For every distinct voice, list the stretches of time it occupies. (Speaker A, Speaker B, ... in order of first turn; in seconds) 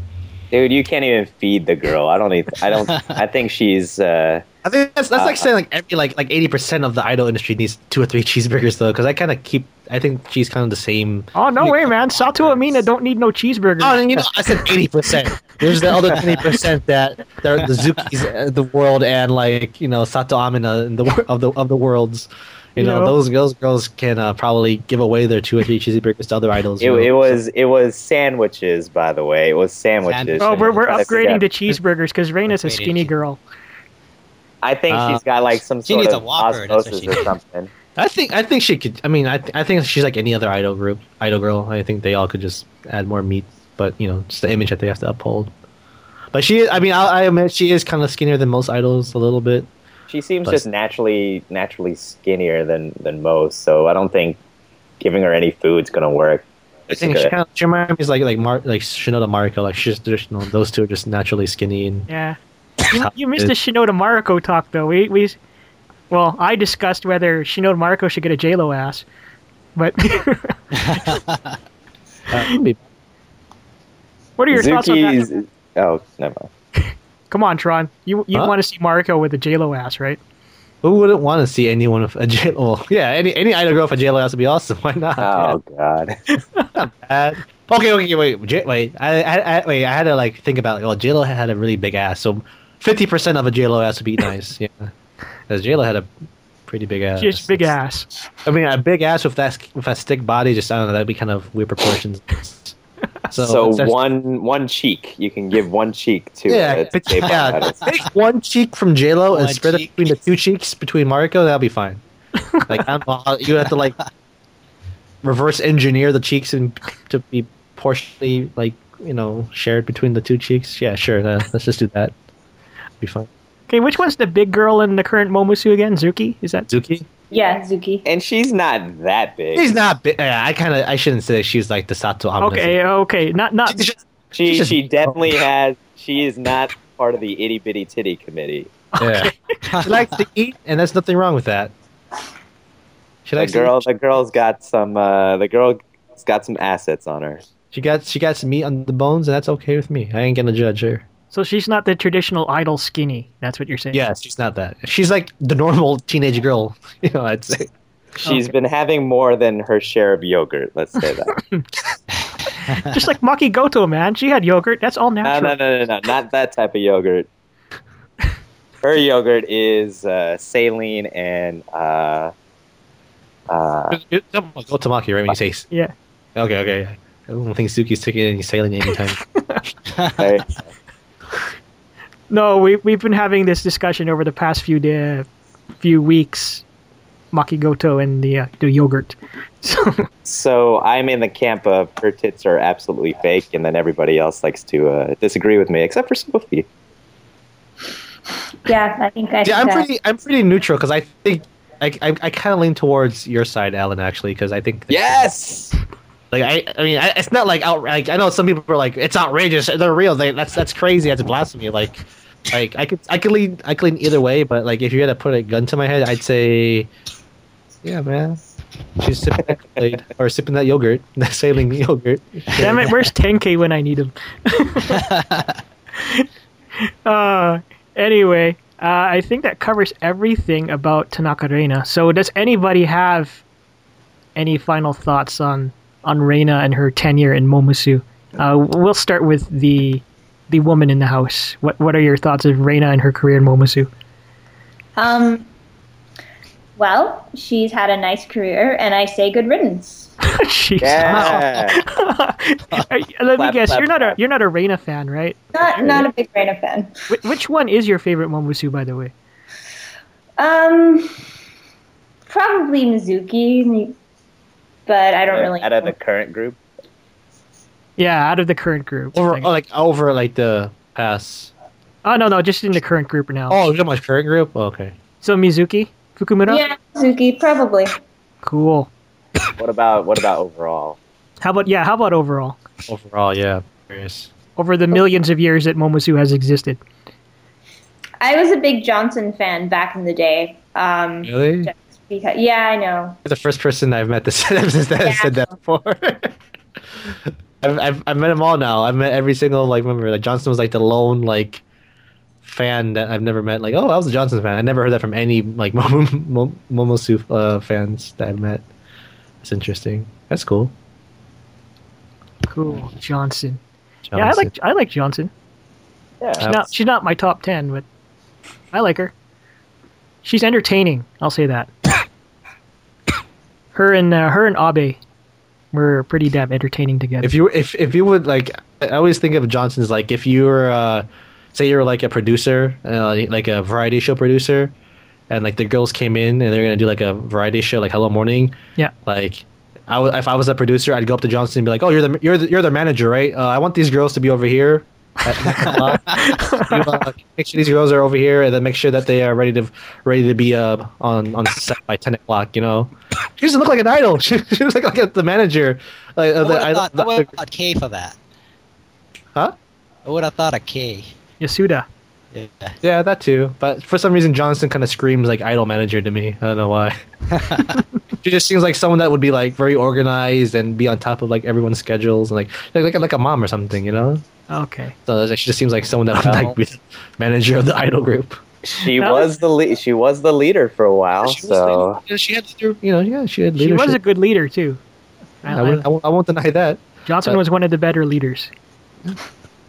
Speaker A: 0.5-4.4, 5.1-5.5, 26.8-31.4, 34.6-37.7, 50.1-54.4, 55.0-57.3, 74.5-76.5, 85.2-86.2, 103.4-107.8, 128.0-129.7, 134.3-138.7, 143.3-147.4, 158.2-161.3, 165.2-167.3, 168.8-172.3, 173.5-174.0, 180.2-180.7, 190.2-196.7, 204.9-205.7, 250.8-251.8, 253.4-254.2, 255.7-256.1, 265.3-266.6, 279.6-281.0, 316.2-316.5, 376.2-376.5, 378.6-382.0
Speaker B: 4.6-11.3, 13.8-27.4, 34.9-35.2, 38.0-45.5, 46.3-49.7, 57.0-62.1, 62.9-63.5, 72.3-72.8, 80.8-85.6, 86.7-94.9, 95.5-96.1, 96.7-97.7, 98.4-102.8, 103.3-104.0, 106.5-112.0, 112.7-114.0, 115.2-122.1, 123.0-123.3, 126.7-127.0, 129.5-132.8, 133.7-135.4, 139.0-141.7, 143.2-143.8, 147.7-151.0, 153.9-157.7, 173.9-175.7, 176.3-179.2, 199.4-205.3, 206.3-216.9, 217.8-218.4, 219.0-222.9, 269.1-271.5, 273.5-274.9, 282.9-284.3, 291.2-291.7, 293.2-296.4, 297.1-301.6, 302.4-308.6, 309.4-310.7, 314.1-314.5, 316.4-316.7, 327.2-334.7, 335.3-357.3, 362.8-367.0, 368.2-374.2, 375.1-378.4, 381.2-384.0, 385.5-387.4
Speaker C: 11.3-14.4, 22.8-23.1, 30.4-33.4, 62.1-62.4, 62.9-65.4, 66.1-69.0, 69.8-71.2, 74.4-75.3, 77.3-80.2, 97.2-98.1, 123.7-126.7, 132.4-133.8, 138.9-139.3, 151.3-154.0, 161.3-161.6, 162.7-165.6, 182.3-185.3, 185.8-186.6, 187.3-190.1, 222.6-225.1, 226.0-226.2, 226.8-233.4, 234.3-243.9, 250.2-255.4, 257.1-259.1, 268.0-269.5, 272.0-273.6, 275.2-276.6, 278.4-278.9, 281.4-282.6, 284.6-286.8, 312.5-313.6, 314.1-315.3, 316.4-317.8, 318.7-319.1, 320.2-321.7, 323.7-325.0, 325.7-327.3, 345.7-347.0, 361.4-361.9, 374.5-374.9, 379.0-379.3, 383.6-384.8, 385.4-385.9, 387.1-388.5
Speaker D: 30.0-31.2, 32.5-33.1, 35.8-37.3, 70.8-71.5, 109.3-110.1, 139.7-140.1, 224.9-225.6, 356.4-358.1, 360.0-361.1, 362.3-362.8, 367.3-367.8
Speaker E: 127.3-128.0, 198.6-199.8, 244.9-245.4, 246.8-250.1, 255.5-257.0, 260.4-261.1, 262.3-263.9, 264.9-265.9, 276.5-278.0, 288.2-293.2, 295.0-295.3